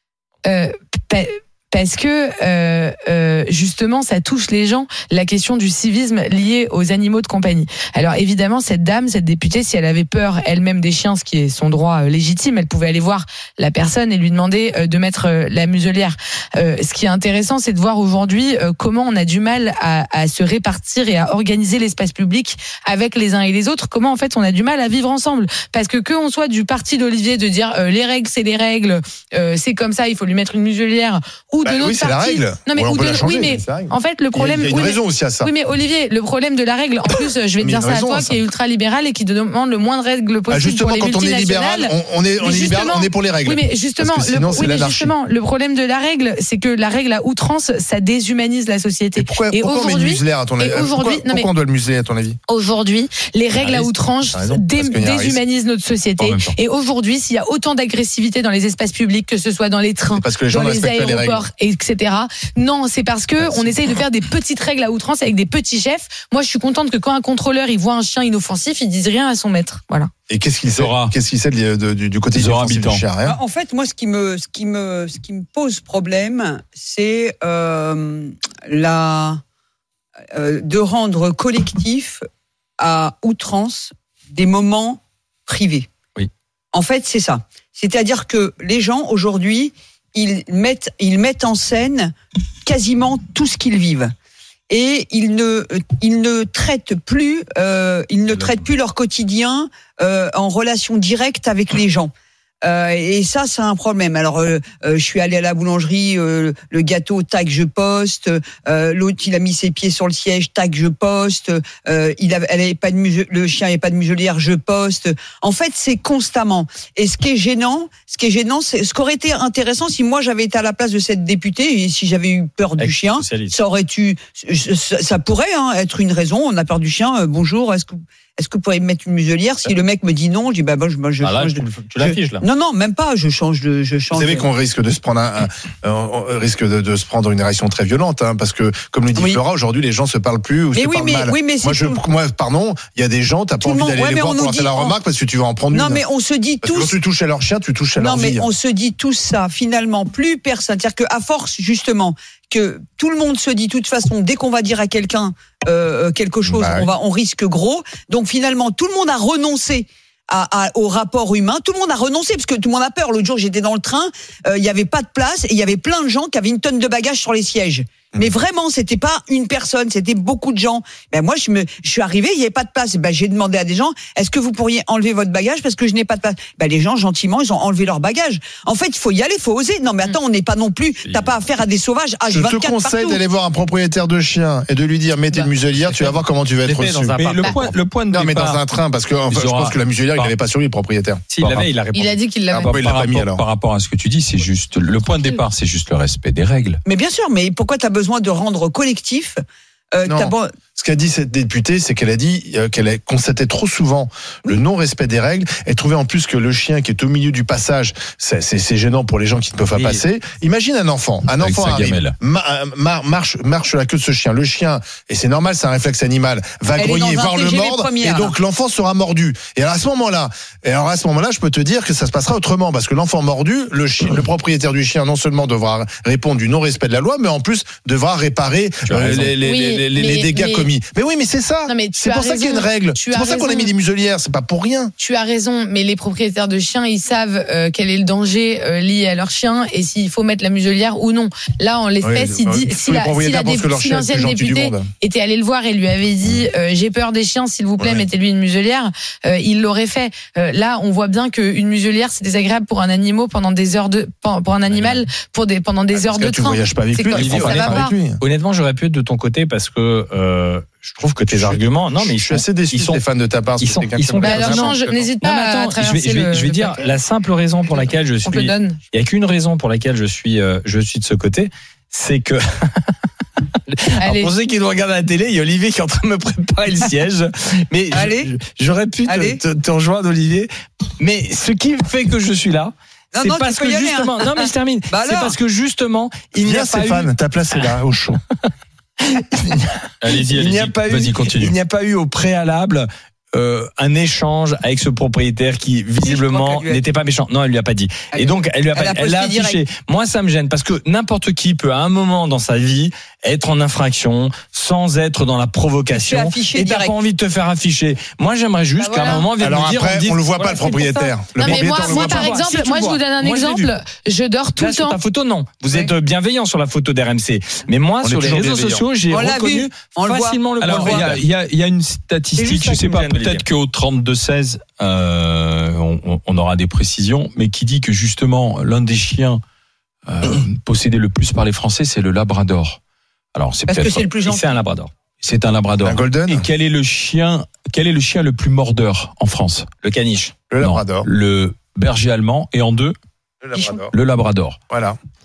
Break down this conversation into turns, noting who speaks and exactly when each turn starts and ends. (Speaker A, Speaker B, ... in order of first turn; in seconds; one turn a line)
Speaker A: 0.5-51.5
Speaker B: 31.6-35.5
Speaker B: 37.6-38.4
Speaker B: 40.5-45.1
Speaker B: 49.2-52.4
Speaker A: 52.5-70.1
Speaker B: 53.5-55.4
Speaker C: 56.2-56.5
Speaker B: 60.1-61.4
Speaker B: 63.4-63.7
Speaker B: 70.3-73.4
Speaker C: 70.8-71.1
Speaker C: 72.3-73.0
Speaker D: 73.2-79.4
Speaker D: 80.3-82.2
Speaker D: 82.8-85.9
Speaker D: 86.7-94.1
Speaker D: 94.7-102.1
Speaker D: 102.6-134.4
Speaker E: 122.8-123.5
Speaker E: 131.2-132.4
Speaker B: 134.1-146.0
Speaker D: 140.7-142.0
Speaker D: 143.6-144.9
Speaker D: 145.7-146.9
Speaker B: 146.6-148.5
Speaker D: 148.0-183.2
Speaker B: 156.5-156.9
Speaker B: 182.3-187.1
Speaker E: 186.7-187.7
Speaker C: 187.1-188.6
Speaker B: 188.1-191.6
Speaker C: 189.3-190.3
Speaker E: 191.3-192.2
Speaker A: 191.9-192.7
Speaker C: 192.6-196.8
Speaker B: 192.6-193.4
Speaker A: 195.1-195.4
Speaker D: 196.9-200.5
Speaker B: 200.1-234.9
Speaker C: 211.4-212.1
Speaker D: 216.8-218.3
Speaker E: 228.9-229.3
Speaker A: 229.4-230.7
Speaker A: 231.7-233.7
Speaker A: 235.0-257.9
Speaker B: 242.0-244.9
Speaker B: 247.8-248.1
Speaker E: 254.7-255.0
Speaker B: 255.9-258.2
Speaker E: 257.1-263.0
Speaker B: 261.3-265.1
Speaker E: 263.6-272.9
Speaker A: 264.2-266.9
Speaker A: 268.2-268.8
Speaker E: 273.7-287.7
Speaker A: 274.0-274.3
Speaker D: 277.9-278.3
Speaker D: 279.0-279.4
Speaker D: 283.1-285.4
Speaker B: 286.3-288.2
Speaker E: 289.0-313.7
Speaker C: 290.0-291.6
Speaker D: 296.0-296.8
Speaker D: 298.1-299.6
Speaker D: 305.9-306.9
Speaker A: 308.8-309.3
Speaker B: 309.4-312.4
Speaker A: 311.4-315.0
Speaker E: 314.6-321.2
Speaker B: 318.0-318.9
Speaker D: 319.1-321.2
Speaker C: 320.6-329.4
Speaker E: 322.4-323.4
Speaker C: 330.1-332.8
Speaker C: 333.4-334.1
Speaker D: 333.7-334.5
Speaker E: 334.2-334.9
Speaker C: 335.2-339.7
Speaker B: 335.8-336.5
Speaker E: 339.8-340.4
Speaker B: 340.5-341.1
Speaker C: 340.6-342.9
Speaker B: 343.4-343.9
Speaker C: 343.9-344.6
Speaker B: 344.7-345.0